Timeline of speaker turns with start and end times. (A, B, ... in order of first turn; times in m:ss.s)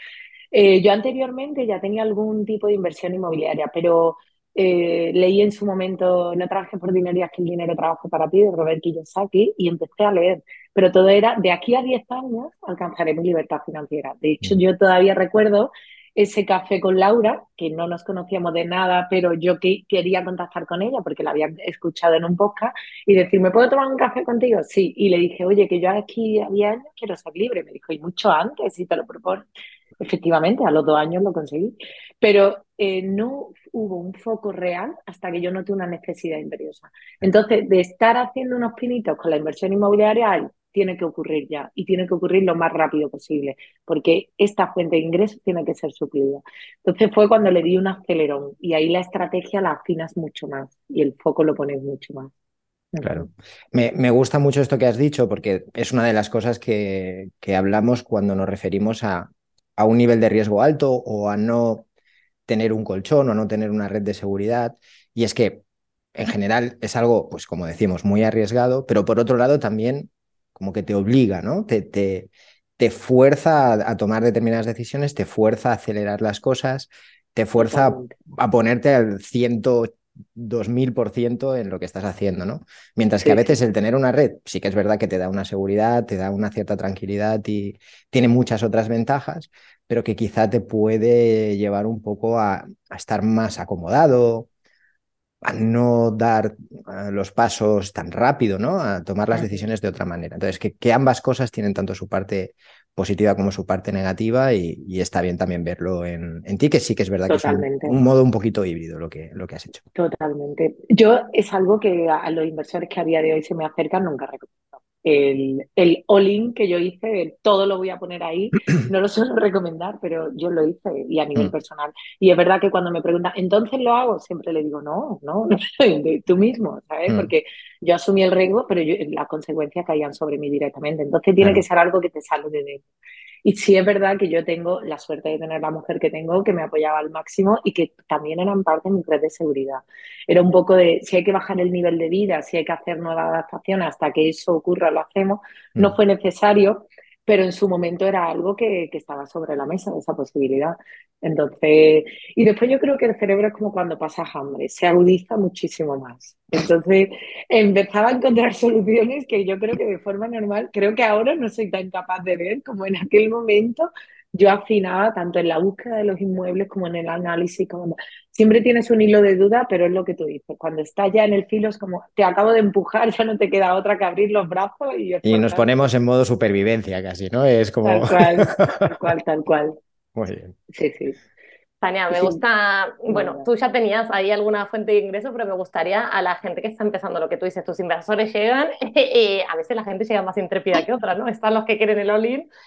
0:00.5-0:29.5 A
0:30.0-0:52.3 A
0:52.9-0:53.3 A
0:53.0-1:01.9 B
1:02.5-1:05.6 B
1:06.2-1:34.5 B
1:17.6-1:18.2 A
1:23.2-1:23.5 A
1:35.4-1:49.8 B
1:47.3-1:48.0 A
1:50.0-2:12.9 A
2:07.1-2:07.3 B
2:13.4-2:55.9 A
2:55.2-2:58.9 B
2:57.8-2:59.8 A
3:00.2-3:00.6 B
3:00.7-3:01.2 A
3:01.8-3:12.5 C
3:02.1-3:02.4 A
3:03.1-3:03.5 A